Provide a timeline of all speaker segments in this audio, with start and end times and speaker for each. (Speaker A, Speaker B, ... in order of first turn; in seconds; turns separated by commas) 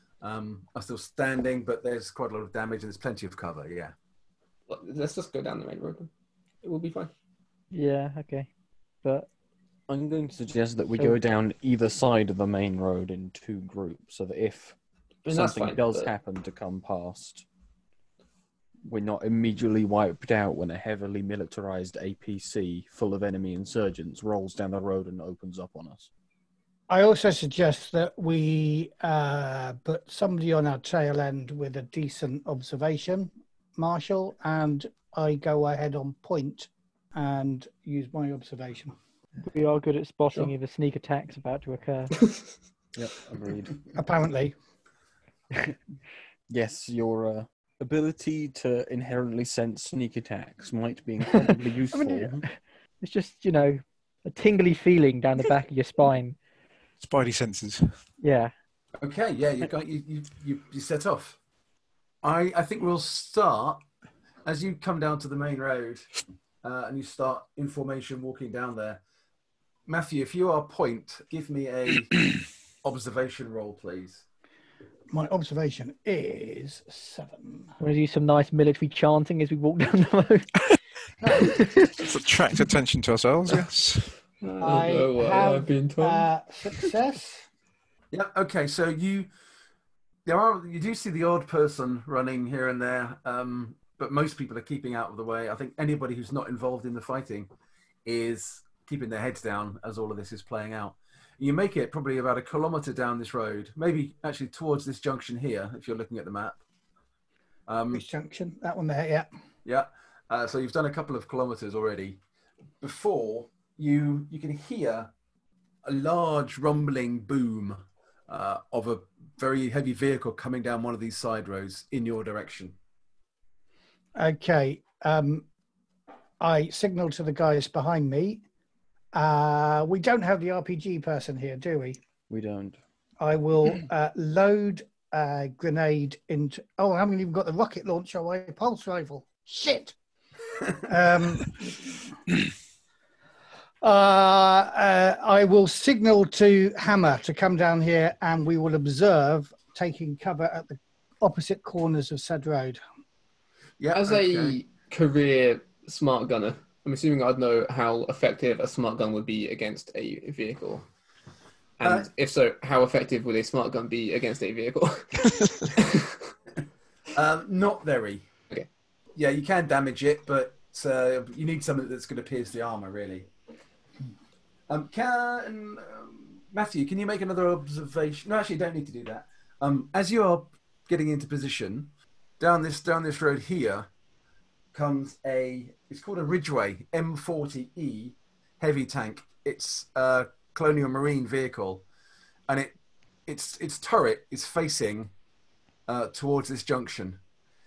Speaker A: 0.2-3.9, Speaker B: 4.7-6.1, Speaker B: 6.6-7.1, Speaker C: 7.7-8.5, Speaker D: 9.9-14.8, Speaker B: 15.2-16.1, Speaker D: 15.3-17.4, Speaker D: 18.9-26.1, Speaker E: 26.9-39.0, Speaker C: 39.4-42.1, Speaker B: 42.2-42.5, Speaker D: 42.9-43.8, Speaker E: 43.9-44.5, Speaker D: 46.5-52.4, Speaker C: 51.9-52.5, Speaker C: 53.0-56.4, Speaker F: 57.0-57.9, Speaker C: 58.2-58.5, Speaker A: 59.0-61.4, Speaker A: 62.2-63.8, Speaker A: 64.4-66.0, Speaker A: 66.6-69.0, Speaker A: 69.9-72.2, Speaker A: 72.8-74.2, Speaker E: 75.1-77.7, Speaker C: 77.8-80.5, Speaker F: 81.5-84.1, Speaker B: 84.4-86.3, Speaker E: 84.6-87.4, Speaker A: 88.1-89.3, Speaker A: 90.2-97.5, Speaker A: 98.0-106.6, Speaker A: 107.7-108.0, Speaker E: 107.9-109.3, Speaker A: 109.6-112.2, Speaker A: 112.8-115.1, Speaker A: 115.8-122.7, Speaker E: 124.2-125.4, Speaker E: 126.4-128.4, Speaker E: 129.1-132.0, Speaker D: 132.3-132.8, Speaker E: 133.2-139.9, Speaker E: 140.8-142.0, Speaker E: 143.8-152.8, Speaker A: 153.8-154.6, Speaker B: 153.9-160.8, Speaker B: 161.8-166.1, Speaker A: 161.8-162.1, Speaker A: 167.1-168.2, Speaker A: 169.2-173.3, Speaker A: 174.7-183.8, Speaker A: 184.7-191.8, Speaker A: 192.5-192.7, Speaker A: 193.3-195.1, Speaker A: 195.9-197.2